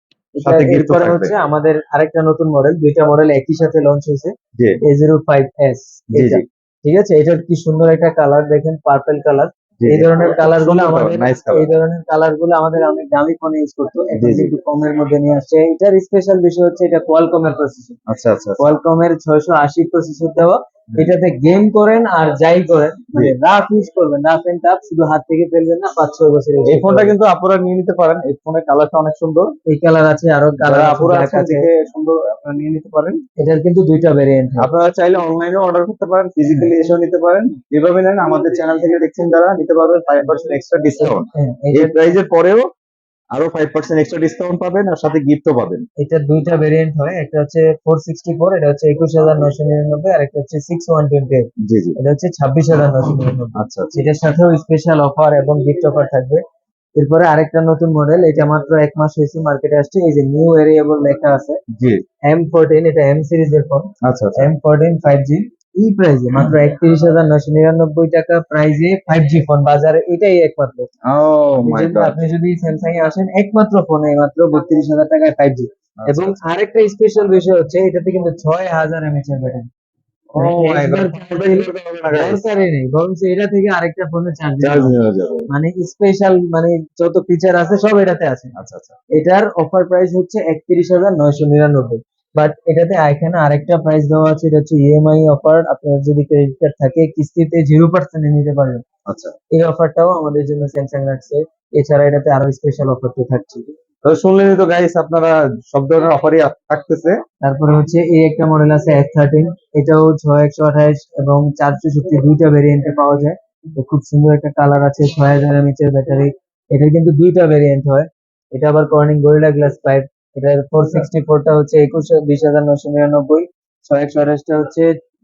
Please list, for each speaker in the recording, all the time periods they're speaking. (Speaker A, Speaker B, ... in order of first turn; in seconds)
Speaker A: 0.4-18.0, 18.6-27.1, 29.7-31.7, 33.4-34.7, 36.5-36.9, 41.3-42.2, 46.0-56.4, 57.0-61.6, 62.3-70.9, 71.6-79.7, 80.4-84.9, 85.5-88.5, 89.1-98.8, 99.5-103.7, 107.4-124.9
Speaker B: 0.4-1.3, 6.2-6.4, 9.8-11.7, 14.2-14.5, 18.1-18.6, 26.7-29.5, 30.6-33.2, 34.6-42.6, 43.3-45.9, 51.6-52.0, 53.5-54.1, 64.0-64.5, 71.1-72.2, 76.0-76.4, 80.3-82.4, 84.6-85.5, 88.6-89.0, 99.1-99.3, 104.0-107.2